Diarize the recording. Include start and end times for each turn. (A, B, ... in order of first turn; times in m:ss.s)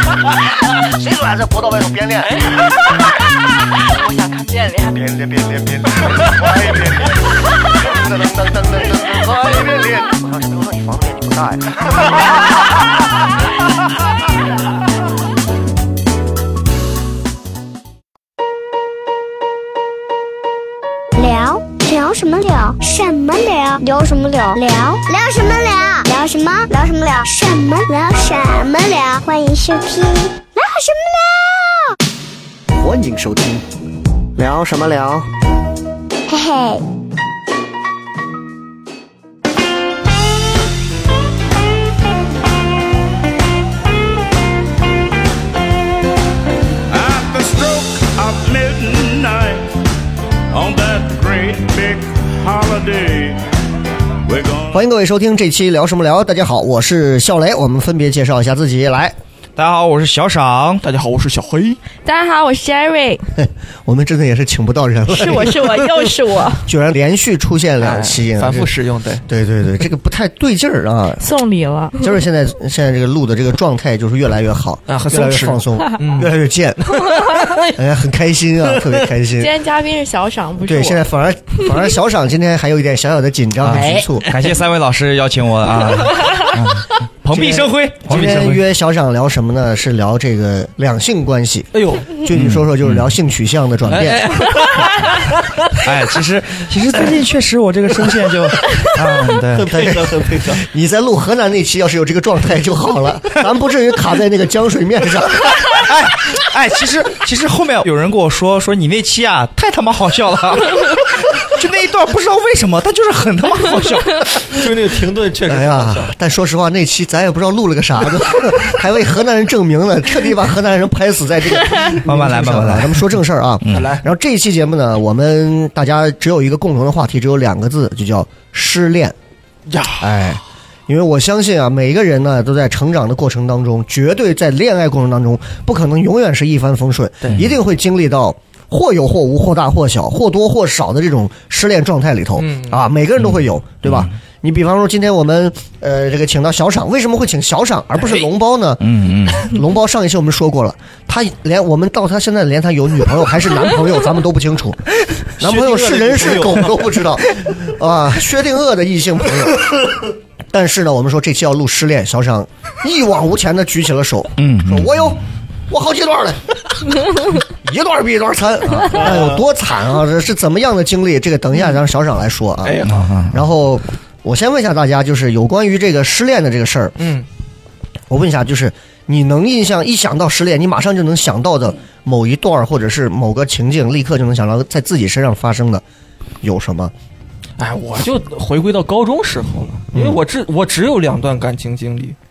0:00.8-0:02.6 A
0:04.8-0:12.3 A
0:21.2-0:31.9 B
0:32.8-0:33.6 A
0:34.4-0:35.3 A
0:36.3-0:36.8 B
0:46.9-0:49.7 C
0:50.5-0:53.4 C
0:54.2-0:54.8 C
0:54.7-0:59.2 A
0:59.6-1:00.8 D
1:00.8-1:01.8 E
1:02.0-1:03.3 F
1:03.4-1:05.8 A
1:05.1-1:06.6 F
1:06.6-1:08.7 A
1:07.8-1:09.2 E
1:09.2-1:11.2 A
1:11.2-1:12.1 F
1:12.0-1:17.2 A
1:14.9-1:17.8 E
1:17.7-1:19.5 A
1:19.4-1:21.0 F
1:20.7-1:24.2 A
1:23.6-1:28.6 D
1:23.6-1:24.5 E
1:27.3-1:34.5 A
1:31.7-1:32.2 E
1:32.3-1:33.1 D
1:33.9-1:35.8 E
1:35.7-1:39.8 D
1:39.5-1:40.6 E
1:39.7-1:45.7 A
1:45.6-1:54.4 D
1:54.4-1:56.1 E
1:55.5-2:09.2 A
2:02.0-2:04.0 D
2:03.7-2:04.0 E
2:09.7-2:10.4 E
2:10.0-2:34.8 A
2:22.4-2:22.9 E
2:23.8-2:24.1 D
2:28.8-2:29.5 D
2:35.4-2:39.8 A
2:35.4-2:36.9 E
2:40.5-2:57.0 A
2:44.4-2:45.1 D
2:49.0-2:49.4 E
2:52.6-2:53.1 E
2:52.8-2:53.4 D
2:57.0-2:57.3 E
2:58.1-3:05.8 A
3:06.4-3:06.9 A
3:07.6-3:12.2 E
3:09.9-3:10.2 A